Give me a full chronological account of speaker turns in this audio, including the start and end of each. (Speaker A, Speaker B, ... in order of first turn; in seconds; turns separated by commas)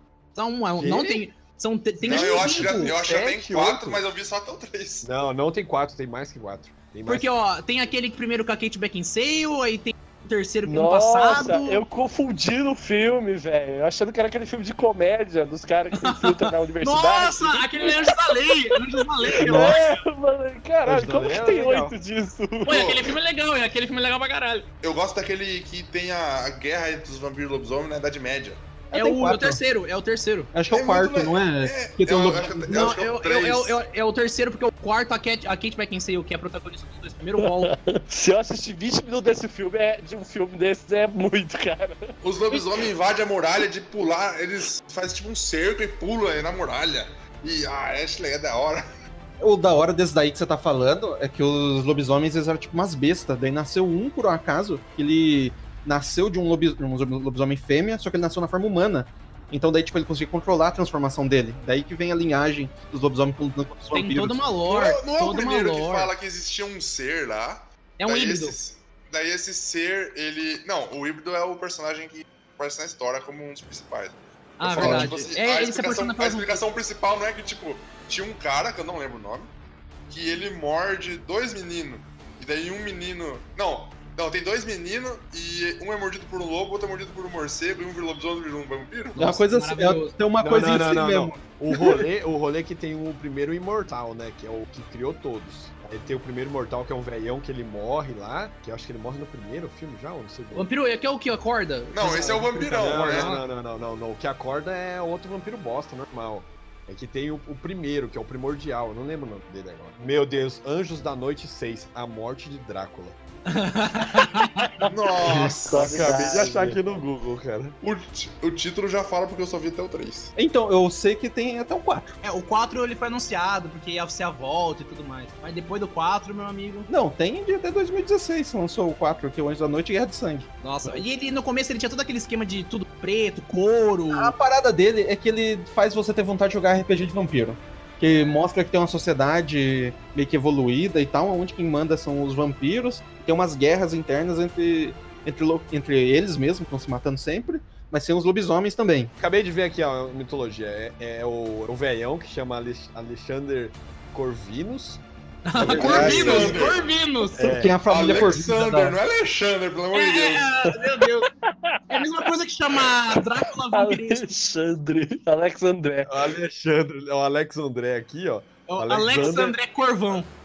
Speaker A: 0.3-3.0, Speaker B: 0.8-1.2, Speaker C: 2.0-5.1, Speaker B: 2.7-4.0, Speaker B: 5.0-7.3, Speaker A: 7.0-11.8, Speaker D: 10.7-18.2, Speaker A: 15.9-20.0, Speaker D: 18.7-22.8, Speaker B: 20.8-21.9, Speaker A: 22.6-24.6, Speaker C: 22.7-23.1, Speaker C: 24.8-28.6, Speaker E: 28.9-29.6, Speaker A: 28.9-30.5, Speaker E: 30.5-33.0, Speaker C: 30.7-33.8, Speaker A: 32.7-37.7, Speaker D: 37.4-42.1, Speaker C: 42.2-48.9, Speaker E: 49.4-64.4, Speaker A: 63.9-66.1, Speaker C: 64.7-79.5, Speaker A: 68.0-68.6, Speaker A: 74.6-76.7, Speaker E: 74.7-75.1, Speaker C: 80.1-89.3, Speaker E: 89.2-92.1, Speaker A: 89.3-90.1, Speaker B: 90.4-100.7, Speaker A: 100.5-103.5, Speaker C: 101.9-103.4, Speaker B: 102.7-113.2, Speaker A: 113.5-114.7, Speaker D: 114.4-114.9, Speaker C: 114.9-116.5, Speaker E: 115.3-115.5, Speaker D: 115.6-116.9, Speaker B: 115.7-117.8, Speaker C: 117.8-120.3, Speaker E: 120.4-122.2, Speaker A: 122.2-126.9, Speaker E: 126.9-130.5, Speaker A: 130.6-134.3, Speaker E: 134.1-149.1, Speaker B: 149.2-155.0, Speaker A: 155.4-157.7, Speaker B: 155.6-156.7, Speaker E: 155.7-156.6, Speaker C: 155.7-157.0, Speaker B: 157.3-158.3, Speaker E: 157.4-159.0, Speaker C: 157.8-160.7, Speaker A: 159.9-161.3, Speaker D: 161.4-162.3, Speaker A: 161.9-164.3, Speaker D: 162.8-166.3, Speaker B: 166.1-169.6, Speaker A: 168.7-170.3